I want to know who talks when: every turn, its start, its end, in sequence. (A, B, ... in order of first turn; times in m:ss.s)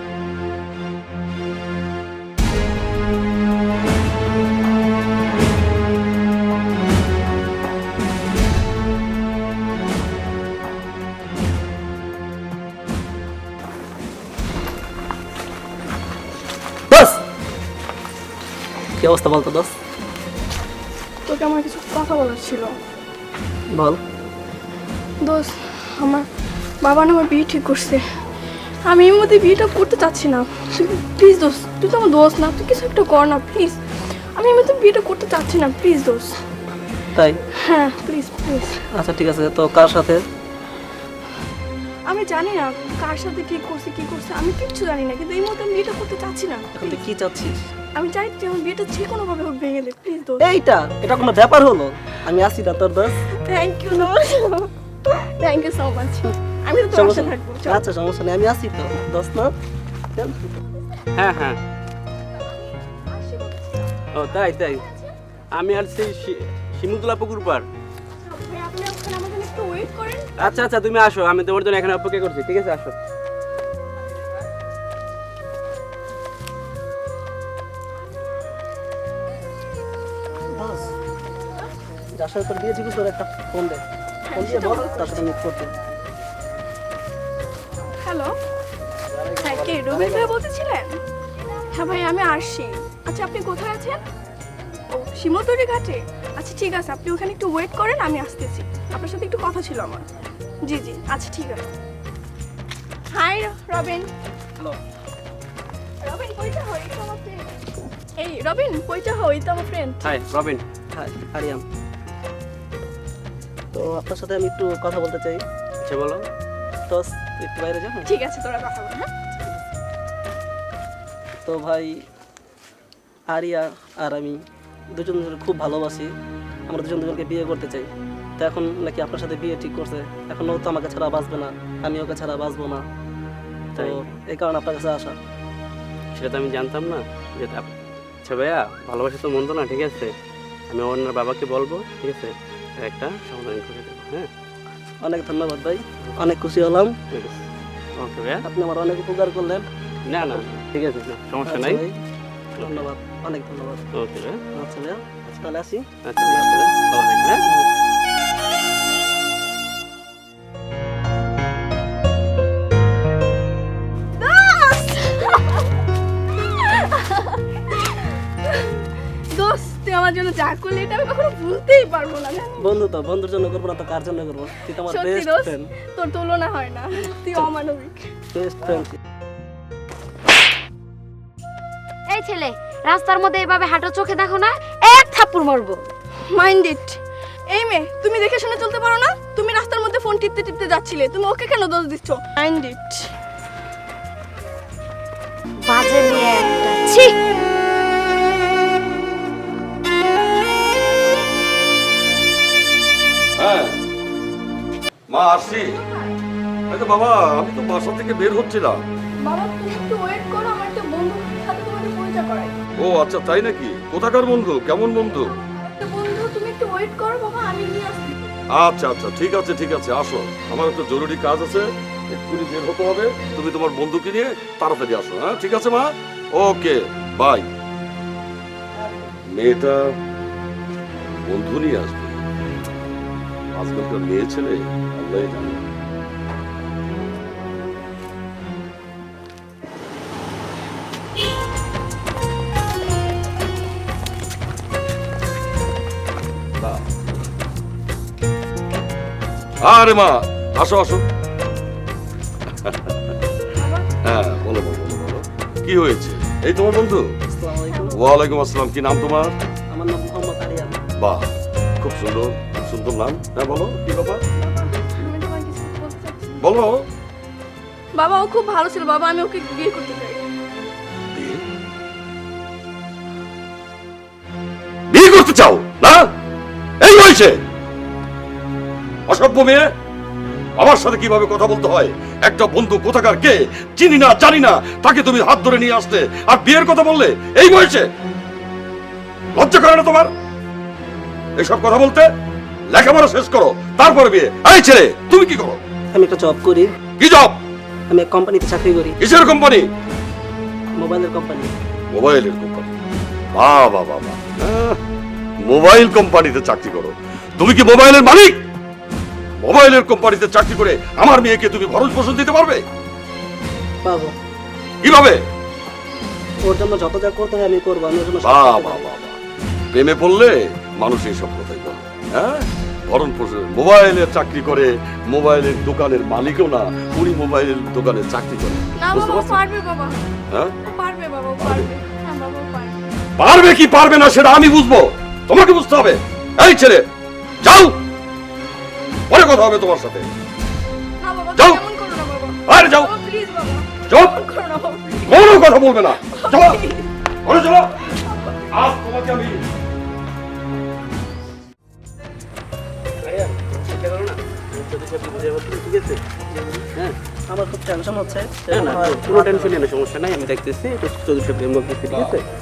0:16.9-0:17.2 A
0:19.0-0:19.7 A
0:21.2-0:22.8 B
0:23.7-0:24.0 A
0:25.2-0:26.2 B
0:26.8-0:28.0 B
0:28.8-0:33.8 B
0:34.4-0:36.4 B
0:37.5-0:38.8 B
0:38.9-0:40.2 A
0:42.1-0:47.0 B
0:46.7-0:47.6 A
0:47.9-0:50.4 B
0:50.4-0:53.2 A
0:53.3-0:57.8 B
0:56.9-0:59.5 A
1:00.1-1:00.4 A
1:01.2-1:01.6 C
1:02.5-1:05.1 B
1:04.1-1:04.8 C
1:05.5-1:07.7 C
1:08.2-1:10.3 B
1:10.4-1:13.0 C
1:10.4-1:10.7 A
1:20.5-1:20.9 A
1:22.2-1:23.8 A
1:24.2-1:25.3 B
1:24.3-1:25.7 A
1:28.0-1:28.3 B
1:29.2-1:30.4 A
1:29.4-1:30.9 B
1:31.7-1:34.0 B
1:34.9-1:40.0 B
1:40.6-1:41.7 B
1:43.1-1:44.1 B
1:46.0-1:47.5 B
1:48.2-1:50.1 B
1:50.0-1:50.6 C
1:50.9-1:51.6 A
1:53.7-1:55.4 A
1:55.8-1:56.2 C
1:56.9-1:58.1 A
1:58.0-1:59.1 B
2:01.4-2:02.0 A
2:03.3-2:04.4 A
2:04.9-2:06.1 A
2:06.7-2:12.8 A
2:13.7-2:15.2 A
2:13.8-2:14.0 C
2:16.1-2:17.7 C
2:18.2-2:20.1 C
2:20.7-2:24.3 C
2:25.0-2:26.9 A
2:27.1-2:27.4 C
2:28.0-2:28.4 C
2:28.4-2:29.7 A
2:30.1-2:31.8 C
2:31.4-2:32.0 A
2:32.6-2:33.8 A
2:32.6-2:32.9 C
2:33.9-2:34.4 C
2:34.5-2:36.7 A
2:36.0-2:37.4 C
2:44.2-2:45.7 B
2:46.4-2:52.7 B
2:52.6-2:55.7 A
2:54.9-2:58.1 B
2:58.3-2:59.0 A
3:02.1-3:05.9 D
3:06.3-3:13.1 B
3:15.6-3:17.2 D
3:23.4-3:23.8 E
3:25.1-3:25.8 E
3:25.5-3:26.1 B
3:26.7-3:28.8 E
3:29.2-3:32.5 B
3:32.8-3:35.3 E
3:35.2-3:38.3 B
3:38.5-3:47.5 E
3:49.3-3:49.9 E
3:51.3-3:52.2 E
3:53.5-3:55.6 E
4:09.6-4:11.0 E
4:12.6-4:13.1 E
4:13.5-4:13.9 B
4:14.0-4:17.2 E
4:17.3-4:18.0 A
4:17.7-4:18.0 B
4:17.9-4:19.4 E
4:19.7-4:20.8 A
4:21.0-4:24.2 E
4:24.3-4:26.4 B
4:26.4-4:26.8 E
4:28.0-4:30.2 B
4:31.1-4:31.4 E
4:34.9-4:36.1 E
4:36.8-4:37.4 E
4:39.1-4:39.6 E
4:40.6-4:47.9 E
4:49.3-4:50.1 E
4:51.4-4:52.1 E
4:52.7-4:55.6 E
4:55.9-4:56.7 A
4:57.0-4:57.4 E
4:57.9-4:59.0 A
4:59.0-4:59.7 E
5:00.8-5:01.5 A
5:01.9-5:02.8 E
5:03.3-5:04.8 E
5:05.4-5:08.4 E
5:09.4-5:12.6 E
5:13.8-5:14.1 A
5:14.8-5:15.2 E
5:16.4-5:18.8 A
5:18.2-5:19.2 E
5:19.7-5:29.4 E
5:28.8-5:30.1 B
5:30.6-5:32.8 B
5:31.4-5:31.7 E
5:33.2-5:36.9 E
5:37.4-5:37.8 E
5:39.1-5:40.1 E
5:41.0-5:45.2 B
5:41.4-5:41.6 E
5:42.5-5:42.9 E
5:43.9-5:44.2 E
5:45.0-5:46.6 E
5:46.1-5:46.9 B
5:47.2-5:47.7 E
5:48.0-5:48.4 B
5:48.5-5:49.4 E
5:53.0-5:56.0 C
5:56.3-5:56.6 A
5:57.3-5:59.6 A
5:58.5-6:02.2 C
6:01.9-6:02.2 E